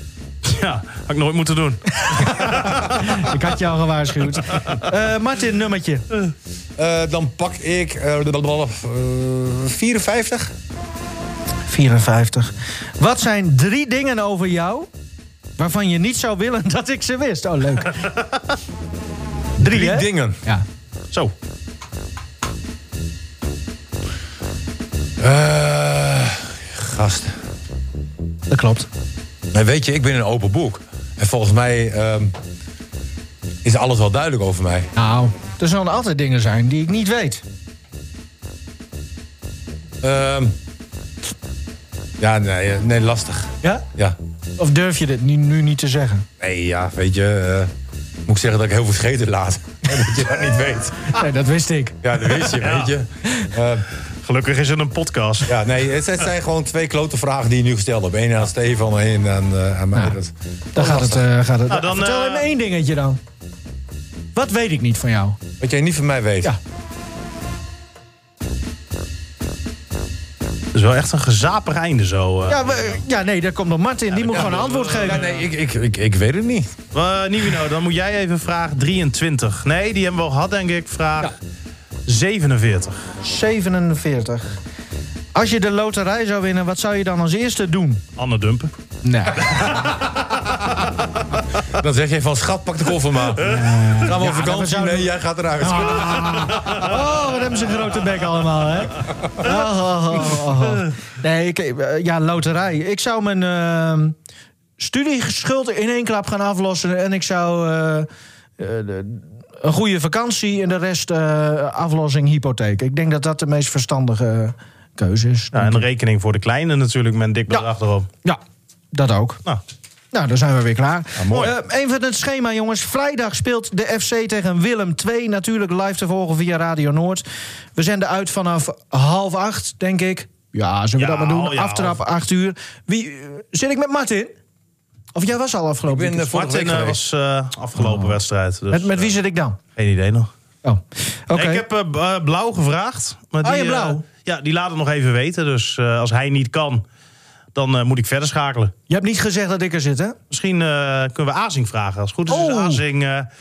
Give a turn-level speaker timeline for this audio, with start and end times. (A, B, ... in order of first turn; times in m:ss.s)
0:00.4-0:03.2 A
0:02.1-0:06.0 B
0:06.8-0:10.5 C
0:11.7-0:14.9 B
0:15.6-0:18.0 B
0:19.6-0:20.6 B
0:19.6-0:20.4 C
0:25.2-0:27.4 C
0:28.5-0:28.9 B
0:29.5-0:32.3 C
0:33.6-0:34.9 C
0:35.0-0:37.4 B
0:40.0-0:40.5 C
0:42.2-0:44.2 C
0:44.6-0:46.2 B
0:46.4-0:47.7 C
0:48.2-0:51.2 C
0:51.1-0:52.4 B
0:52.0-0:53.8 C
0:52.6-0:52.9 A
0:54.2-0:55.6 A
0:55.4-1:01.2 C
1:00.7-1:03.2 B
1:01.7-1:02.5 A
1:04.3-1:05.4 B
1:05.6-1:06.5 C
1:10.7-1:13.0 A
1:12.5-1:15.2 B
1:14.1-1:15.4 A
1:15.0-1:16.8 C
1:16.9-1:21.3 A
1:22.1-1:23.0 A
1:23.2-1:24.6 B
1:25.3-1:28.0 B
1:28.2-1:28.7 A
1:29.0-1:29.7 B
1:29.5-1:30.9 A
1:31.6-1:36.6 C
1:33.4-1:44.2 B
1:36.6-1:36.9 A
1:44.8-1:48.1 B
1:48.6-1:55.8 B
1:55.5-1:58.1 A
1:58.9-1:59.4 B
2:00.1-2:07.2 B
2:01.2-2:01.5 C
2:07.7-2:14.3 B
2:11.0-2:12.0 A
2:15.1-2:16.3 B
2:15.9-2:17.0 C
2:16.3-2:19.1 A
2:17.8-2:18.2 B
2:18.7-2:19.6 B
2:19.8-2:20.3 A
2:20.6-2:21.6 B
2:21.3-2:26.8 A
2:23.4-2:24.0 B
2:27.5-2:28.7 A
2:28.9-2:30.2 B
2:30.3-2:33.3 A
2:32.3-2:32.8 B